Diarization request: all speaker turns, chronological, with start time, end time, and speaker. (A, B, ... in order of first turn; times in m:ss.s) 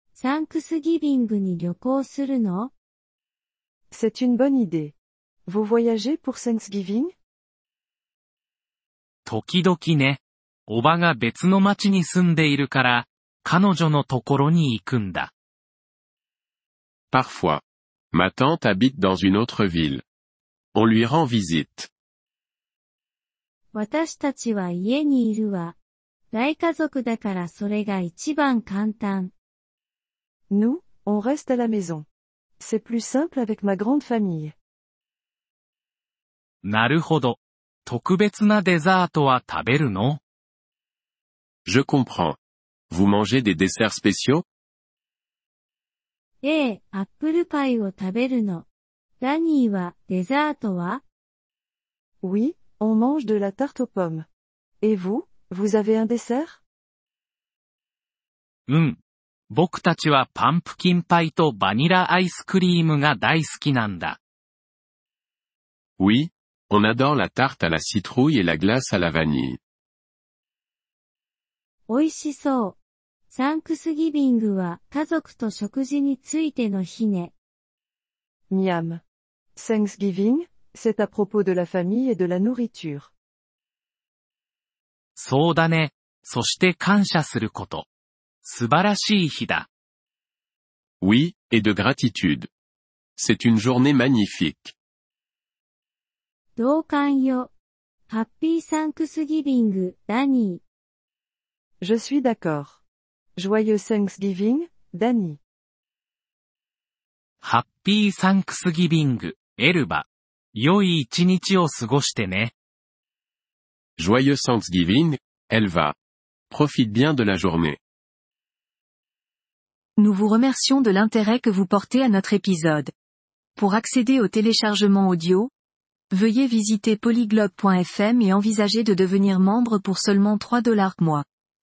0:00.2-0:02.7 A
0:03.9-0:05.0 B
0:05.5-0:07.1 B
0:09.3-0:15.3 C
0:17.1-0:20.0 D
0:20.8-0:21.9 D
0:23.7-0:25.8 A
0:26.3-0:29.3 A
0:30.5-0:32.1 B
0:32.6-0:34.5 B
0:36.6-0:40.2 C
0:41.7-0:42.4 D
0:42.9-0:44.4 D
0:46.4-0:48.7 A
0:49.2-0:51.0 A
0:52.2-0:54.3 B
0:54.8-0:56.6 B
0:58.7-0:59.0 C
0:59.5-1:04.2 C
1:06.0-1:09.6 D
1:11.9-1:12.8 A
1:13.3-1:17.3 A
1:18.5-1:19.0 B
1:19.6-1:23.1 B
1:25.2-1:27.9 C
1:28.4-1:29.7 C
1:31.0-1:32.5 D
1:33.2-1:34.8 D
1:36.6-1:37.5 A
1:38.1-1:40.6 A
1:41.8-1:42.8 B
1:43.4-1:45.4 B
1:47.4-1:52.5 C
1:54.0-1:56.0 D
1:56.5-1:57.8 D
2:00.0-2:02.8 E
2:03.6-2:05.5 E
2:06.2-2:11.2 E